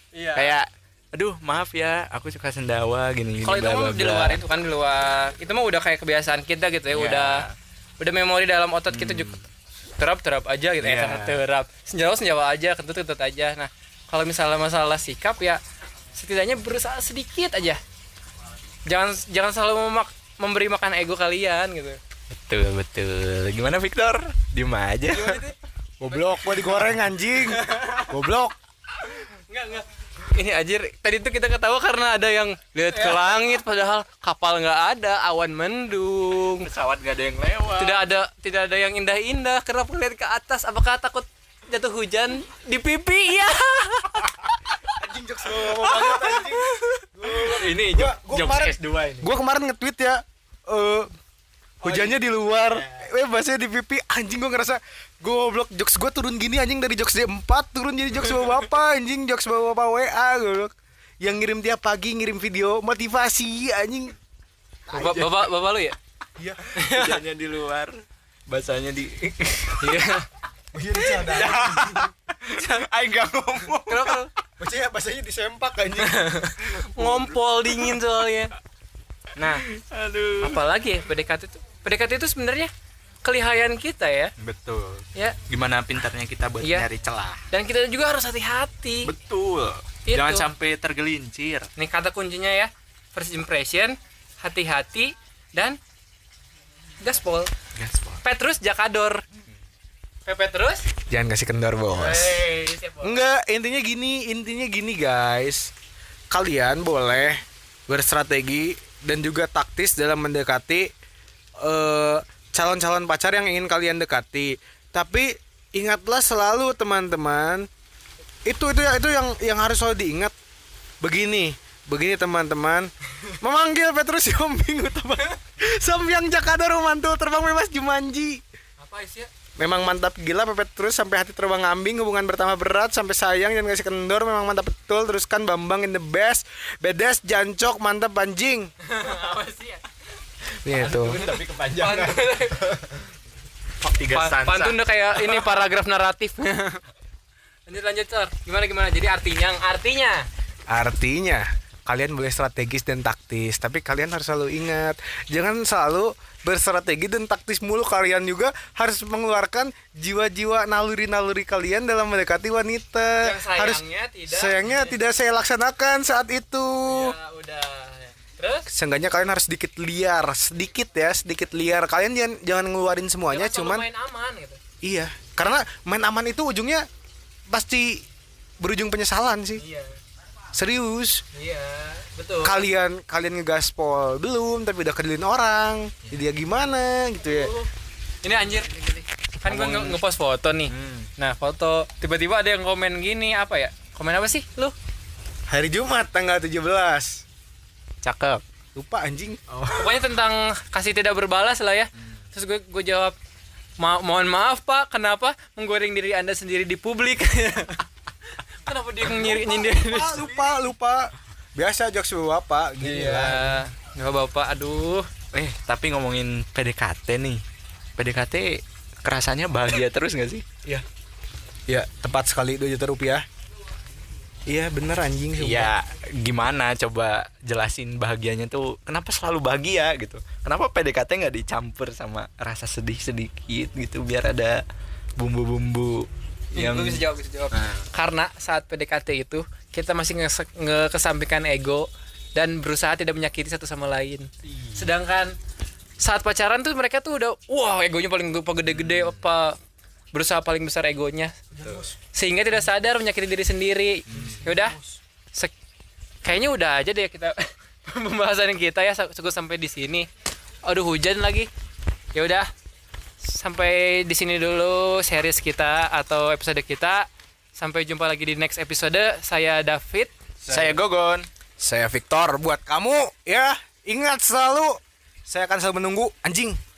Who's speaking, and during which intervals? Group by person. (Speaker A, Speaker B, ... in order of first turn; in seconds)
Speaker A: 0.1-0.6, 3.4-7.5, 8.0-9.3, 10.0-15.6, 16.1-17.8, 18.9-22.0, 25.1-25.6, 26.1-26.7, 27.5-28.1, 29.2-36.7, 37.8-44.4, 46.6-47.0, 64.9-66.0, 66.7-67.2, 69.8-70.3, 73.9-74.3, 76.0-78.5, 80.4-82.7, 83.2-84.3, 86.6-86.9, 87.5-89.1, 90.1-90.5, 91.8-95.8, 97.0-97.5, 98.2-99.2, 100.3-100.9, 101.9-103.2, 128.8-129.3, 138.8-139.8, 140.8-142.8, 144.1-146.8, 147.7-150.3, 163.2-165.0, 166.8-168.7, 173.3-174.6, 179.6-180.0, 181.3-182.6, 187.2-187.7, 188.2-194.8, 199.7-203.2, 203.8-210.4, 212.8-215.1, 236.5-245.3, 246.0-249.6, 250.1-251.4, 252.1-254.8, 256.2-260.1, 260.6-261.5, 262.1-262.5, 263.2-270.1
Speaker B: 0.3-4.4, 6.9-7.5, 8.9-9.4, 10.8-11.4, 22.3-25.5, 36.6-38.0, 45.6-46.5, 47.2-49.3, 51.8-53.1, 65.0-65.3, 66.8-70.1, 71.2-74.2, 76.6-78.0, 79.4-80.6, 84.4-87.5, 89.0-91.7, 97.8-98.2, 140.7-143.0, 143.8-145.5, 189.4-190.0, 190.7-191.1, 198.0-198.4, 199.5-200.0, 215.3-217.4, 218.0-220.4, 225.4-234.6, 235.2-237.9, 248.7-249.3, 254.1-254.5, 270.5-271.3
Speaker C: 26.0-28.6, 44.9-51.1, 51.8-64.2, 64.9-65.3, 66.4-66.7, 70.7-72.0, 74.6-76.3, 101.1-102.5, 103.0-105.7, 106.3-110.9, 111.6-117.7, 118.5-120.3, 121.0-128.4, 129.6-138.7, 140.6-141.2, 150.7-167.2, 168.7-173.9, 174.8-176.9, 177.5-178.1, 178.6-179.6, 180.5-181.2, 182.4-187.5, 195.5-197.2, 198.7-199.4, 209.1-213.6, 221.7-223.2, 224.5-225.7, 251.5-252.0, 254.1-255.0, 270.5-270.8, 271.6-276.6